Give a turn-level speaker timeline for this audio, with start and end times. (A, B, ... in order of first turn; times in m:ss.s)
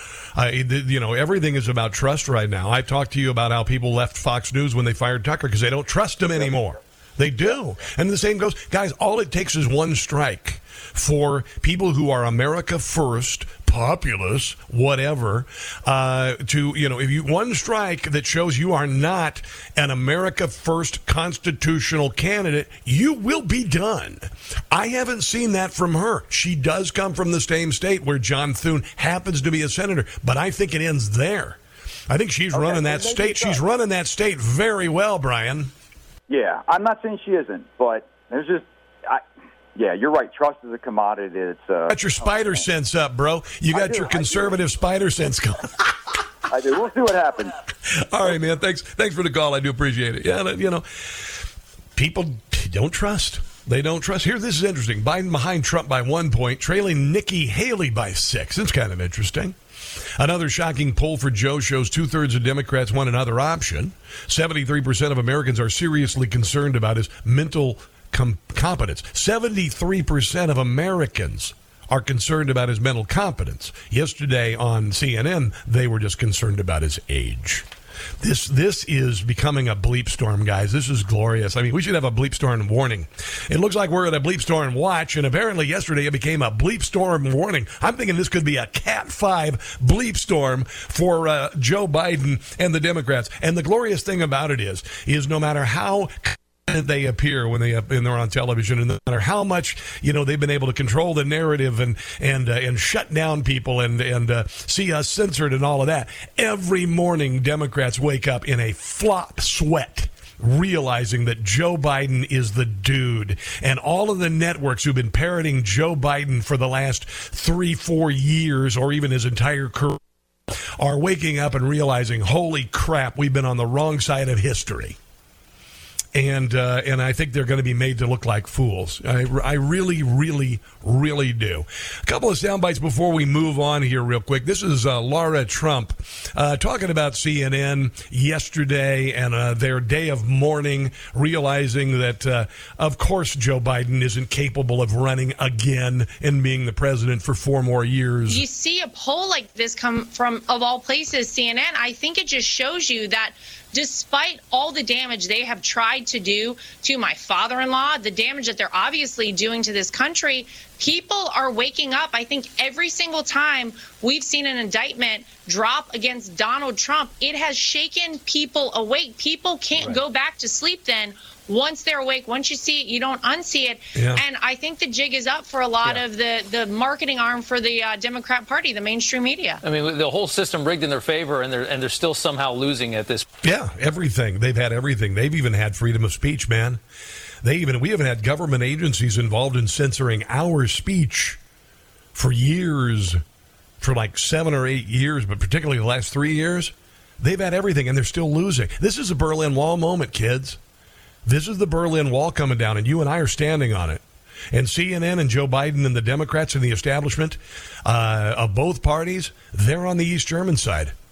0:00.4-0:31.6 A
0:32.1-0:35.7 A
0:32.5-0:33.6 B
0:36.3-0:39.2 B
0:39.8-0:42.7 B
0:41.9-0:45.9 A
0:43.7-0:44.6 B
0:46.5-0:47.6 B
0:47.9-0:51.4 A
0:52.0-0:59.6 A
1:00.2-1:17.7 A
1:18.2-2:00.0 A
2:00.8-2:05.0 A
2:06.1-2:28.4 A
2:28.3-2:59.6 C
2:54.0-2:54.2 A
2:59.6-3:03.2 D
3:03.4-3:06.8 A
3:07.4-3:11.4 A
3:12.2-3:13.2 A
3:13.8-3:20.6 A
3:21.2-3:30.9 A